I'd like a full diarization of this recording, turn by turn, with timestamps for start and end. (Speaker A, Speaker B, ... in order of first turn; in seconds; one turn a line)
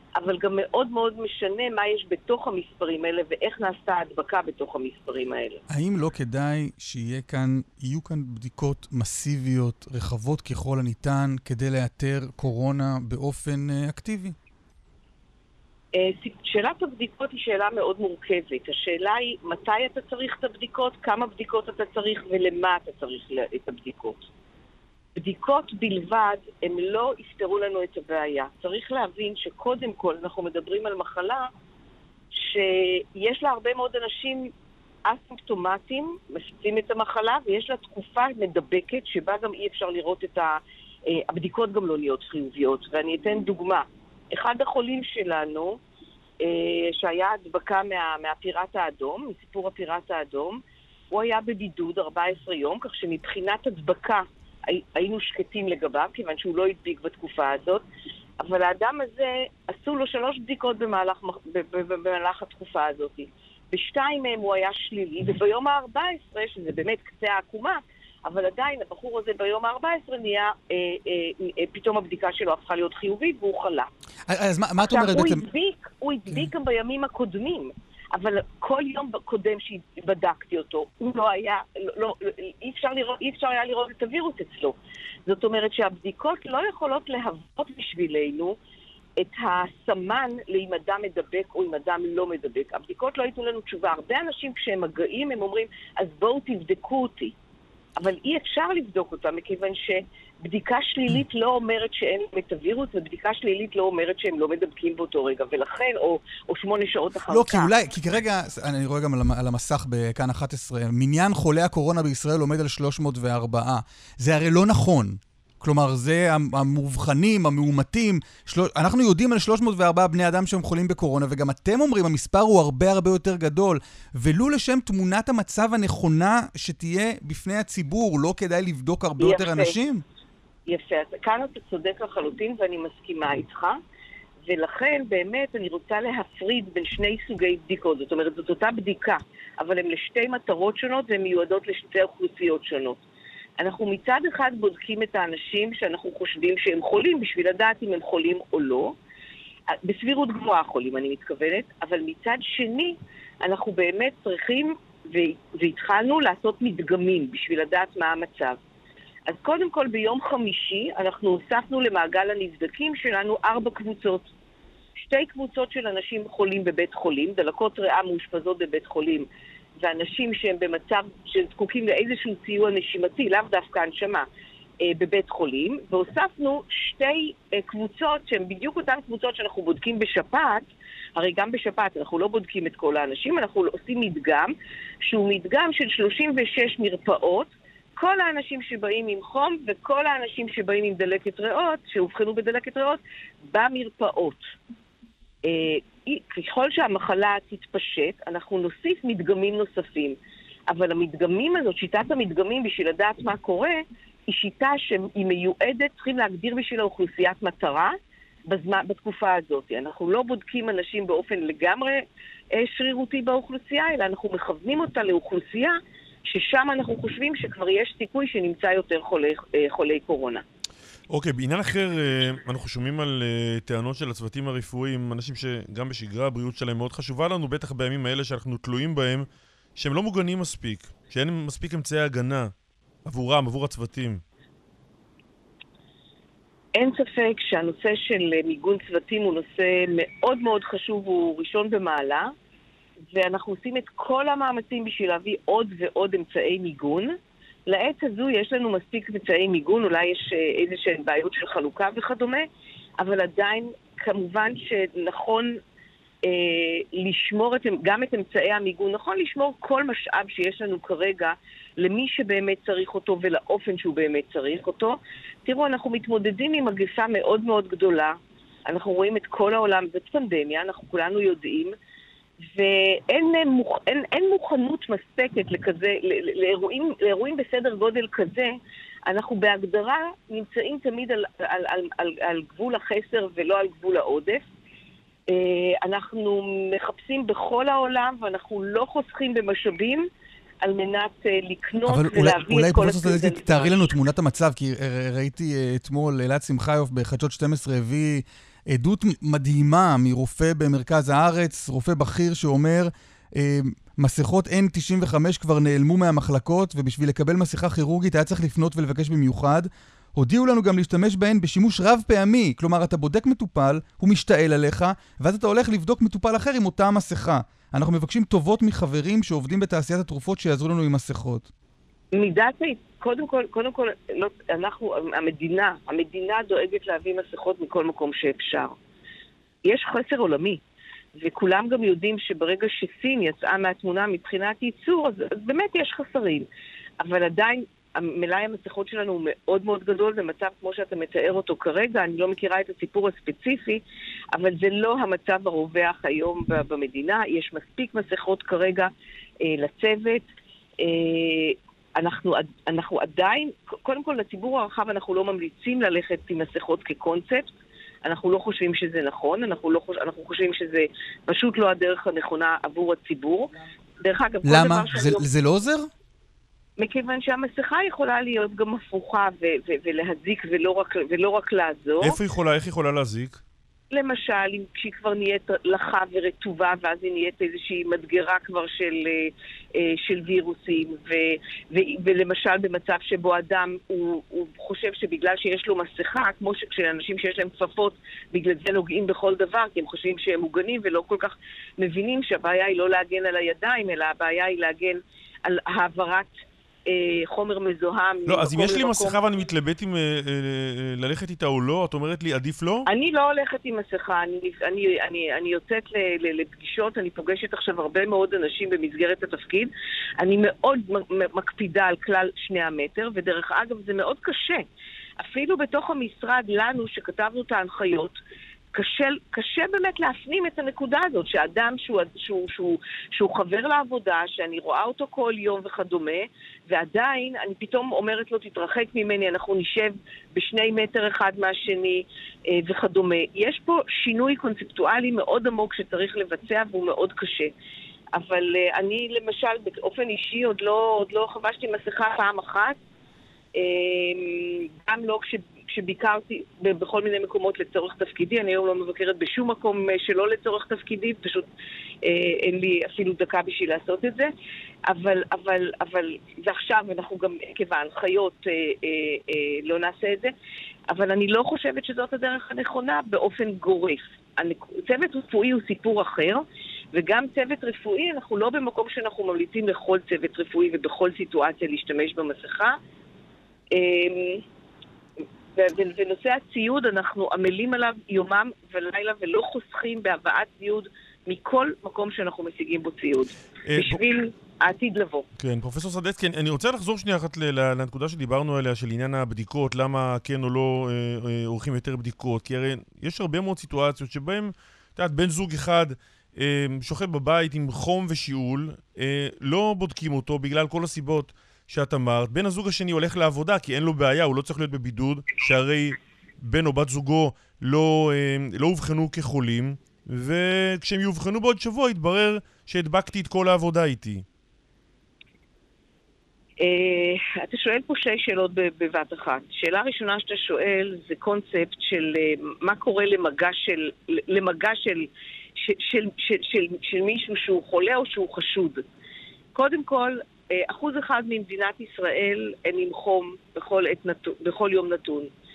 Speaker A: 0.2-5.6
Speaker B: 5.7-14.3
Speaker A: 15.9-24.3
Speaker A: 25.1-31.5
Speaker A: 32.3-34.5
Speaker A: 35.0-45.8
Speaker A: 46.4-57.8
Speaker A: 58.4-73.9
Speaker B: 74.3-75.4
Speaker A: 74.8-88.6
Speaker A: 89.2-97.3
Speaker A: 98.0-107.7
Speaker B: 107.3-130.0
Speaker A: 129.2-129.8
Speaker A: 130.7-133.8
Speaker A: 134.4-143.0
Speaker A: 143.6-149.0
Speaker A: 149.8-158.6
Speaker A: 159.3-164.3
Speaker A: 165.0-169.3
Speaker A: 169.8-174.2
Speaker A: 174.8-194.5
Speaker A: 195.4-200.2
Speaker A: 200.7-207.9
Speaker A: 208.5-220.4
Speaker C: 221.1-229.2
Speaker C: 229.8-232.5
Speaker C: 233.1-234.2
Speaker A: 236.8-242.3
Speaker A: 243.1-247.1
Speaker A: 247.7-252.4
Speaker A: 253.0-255.6
Speaker A: 256.2-271.7
Speaker A: 272.5-284.4
Speaker A: 285.3-290.1
Speaker A: 290.6-293.9
Speaker B: 291.8-321.5
Speaker A: 322.1-328.8
Speaker A: 329.6-330.6
Speaker A: 331.1-336.5
Speaker A: 337.0-348.9
Speaker A: 349.4-357.5
Speaker A: 358.0-365.2
Speaker B: 364.4-365.9
Speaker A: 366.8-372.2
Speaker C: 372.0-373.4
Speaker A: 373.9-396.3
Speaker A: 396.9-399.2
Speaker C: 398.3-402.9
Speaker A: 402.9-414.6
Speaker A: 415.2-418.2
Speaker A: 418.7-437.5
Speaker A: 438.1-442.8
Speaker A: 443.5-451.5
Speaker A: 452.0-454.3
Speaker A: 454.9-460.3
Speaker A: 460.9-472.8
Speaker A: 473.7-474.4
Speaker A: 475.5-485.2
Speaker C: 483.6-484.0
Speaker C: 485.4-514.2
Speaker A: 516.6-528.8
Speaker A: 529.5-535.3